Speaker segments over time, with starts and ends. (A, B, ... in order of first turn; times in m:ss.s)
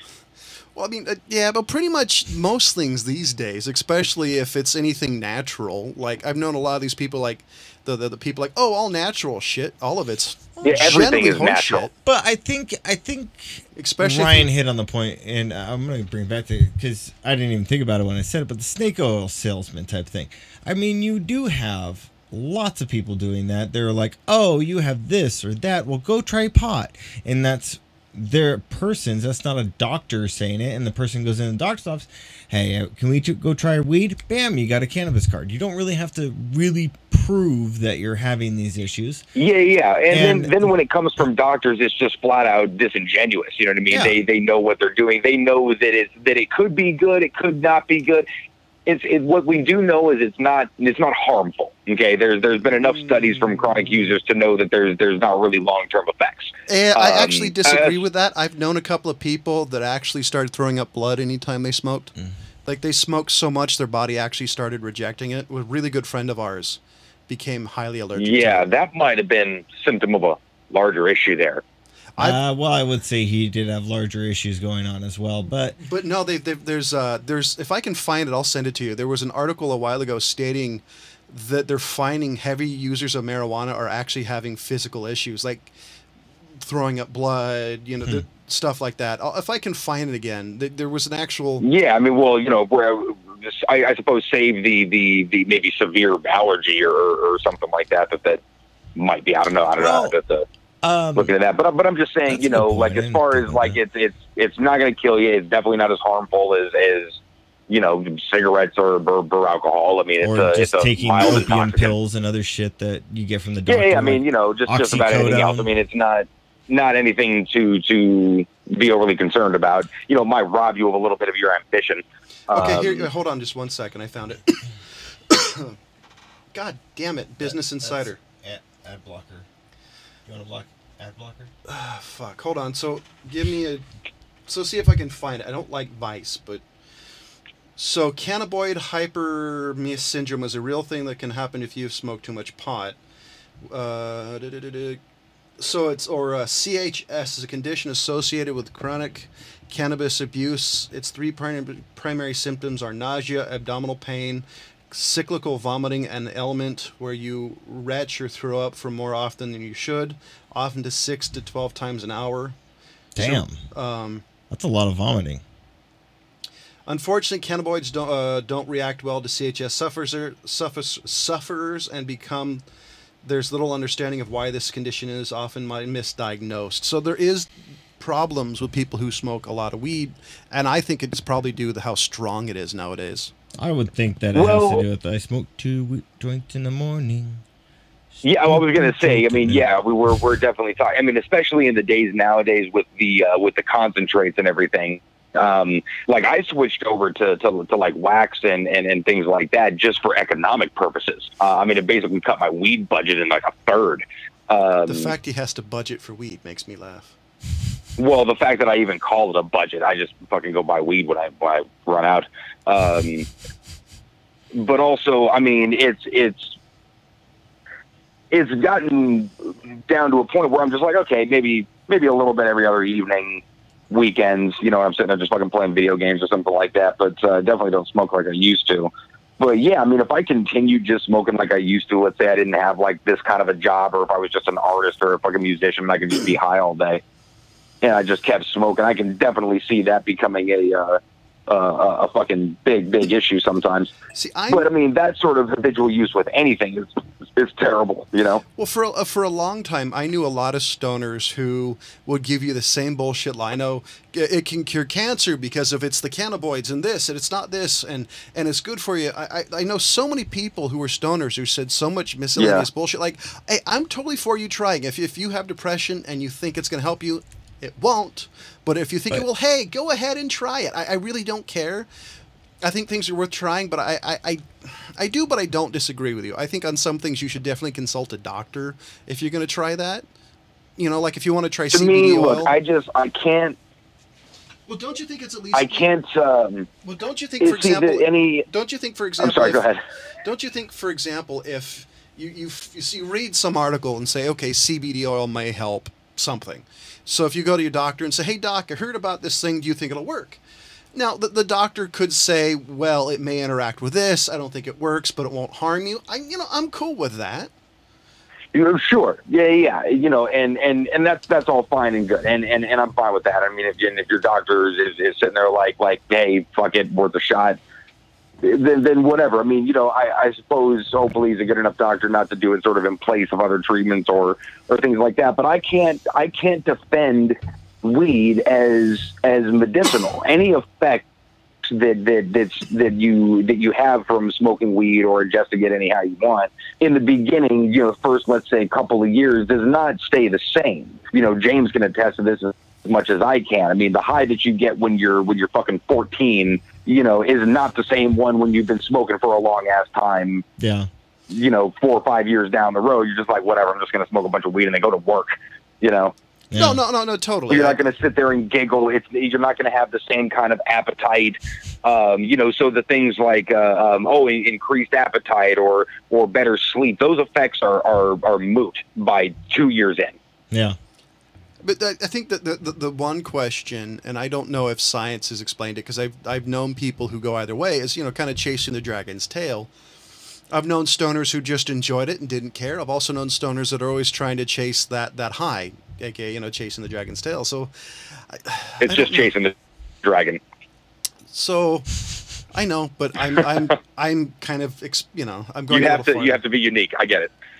0:00.8-0:11.9 A
0:10.6-0:11.0 B
0:10.6-0:11.9 C
0:12.0-0:39.2 B
0:13.8-0:14.5 A
0:39.4-0:48.3 C
0:40.1-0:40.7 B
0:43.9-0:44.2 B
0:48.9-0:58.0 C
0:52.8-0:53.8 A
0:56.7-1:08.7 A
1:08.2-1:11.6 C
1:12.2-1:15.8 B
1:15.8-1:25.7 A
1:26.6-1:31.6 A
1:31.6-1:38.4 C
1:39.0-1:40.5 C
1:39.8-1:40.2 B
1:40.8-1:41.3 B
1:41.2-1:51.9 C
1:42.3-1:43.8 B
1:50.2-1:55.7 B
1:53.7-2:03.1 C
2:02.5-2:04.7 A
2:05.3-2:05.8 A
2:06.5-2:08.2 A
2:07.4-2:09.5 B
2:10.3-2:11.5 B
2:11.7-2:13.8 A
2:14.5-2:16.6 A
2:17.8-2:23.0 A
2:23.7-2:25.0 A
2:25.6-2:42.6 A
2:43.2-2:43.6 B
2:43.2-2:44.2 A
2:44.5-2:45.4 B
2:46.9-2:52.6 A
2:53.2-3:03.3 A
3:03.6-3:07.4 B
3:04.4-3:04.8 C
3:08.2-3:09.7 B
3:08.2-3:25.1 C
3:24.9-3:27.1 A
3:28.0-3:33.3 C
3:34.6-3:36.6 C
3:38.3-3:57.0 C
3:57.8-4:03.9 C
4:04.1-4:04.7 A
4:04.5-4:08.4 C
4:08.6-4:31.9 A
4:22.4-4:22.7 C
4:32.6-4:40.1 A
4:40.8-4:42.5 A
4:41.7-4:43.6 C
4:44.7-4:45.9 A
4:45.5-4:46.7 C
4:46.8-4:49.6 A
4:47.4-4:48.5 C
4:49.2-4:49.8 C
4:50.2-5:00.4 A
5:00.9-5:07.5 A
5:08.5-5:17.6 C
5:18.4-5:31.1 C
5:31.6-5:50.4 C
5:50.6-5:50.9 B
5:51.3-5:56.1 C
5:56.5-5:56.8 B
5:56.5-5:57.8 A
5:57.5-6:10.2 C
6:10.5-6:10.8 B
6:11.6-6:19.7 A
6:20.5-6:29.3 A
6:28.8-6:30.4 C
6:31.3-6:32.0 A
6:32.5-6:36.4 A
6:35.7-6:37.3 C